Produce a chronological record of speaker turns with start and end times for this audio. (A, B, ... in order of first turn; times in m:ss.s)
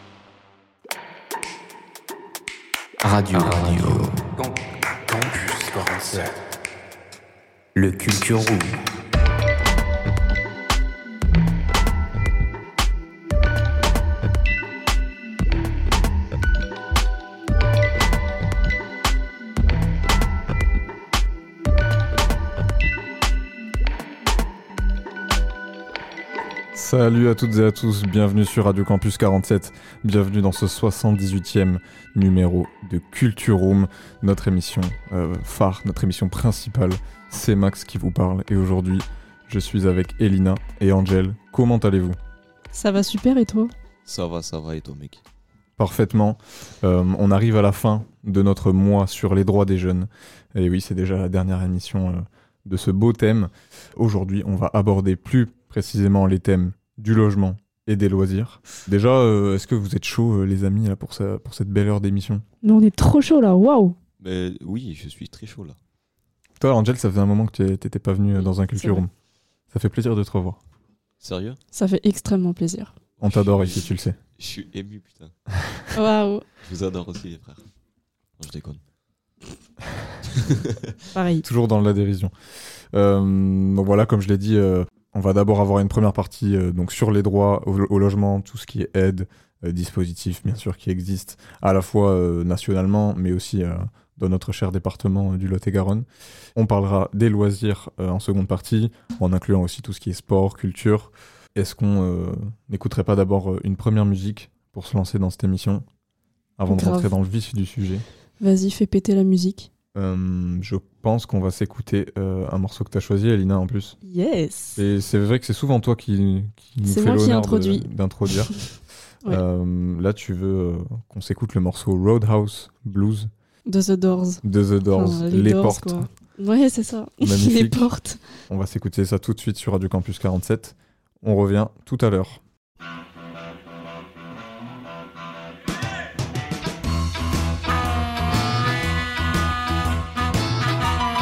0:03.0-0:06.4 A
0:07.8-0:08.8 A
0:26.7-0:42.2 B
0:42.7-0:43.7 C
0:44.0-0:45.2 D
0:45.8-1:02.4 B
1:02.6-1:04.0 C
1:04.2-1:05.8 D
1:06.6-1:09.1 B
1:09.7-1:10.6 B
1:11.2-1:11.6 D
1:11.7-1:12.9 C
1:13.2-1:14.2 B
1:13.2-1:15.4 D
1:15.9-1:16.4 C
1:16.6-1:17.7 D
1:18.4-1:18.8 D
1:20.3-1:20.9 D
1:21.1-1:21.5 C
1:21.4-1:22.3 B
1:22.9-1:45.9 B
1:46.6-1:48.0 B
1:46.7-1:47.1 C
1:48.4-1:49.7 C
1:50.0-1:54.0 B
1:54.0-1:54.8 C
1:54.8-1:58.5 B
1:56.9-1:57.9 C
1:59.2-2:03.3 B
2:03.7-2:08.2 C
2:04.4-2:06.1 B
2:07.2-2:07.9 B
2:08.5-2:12.4 B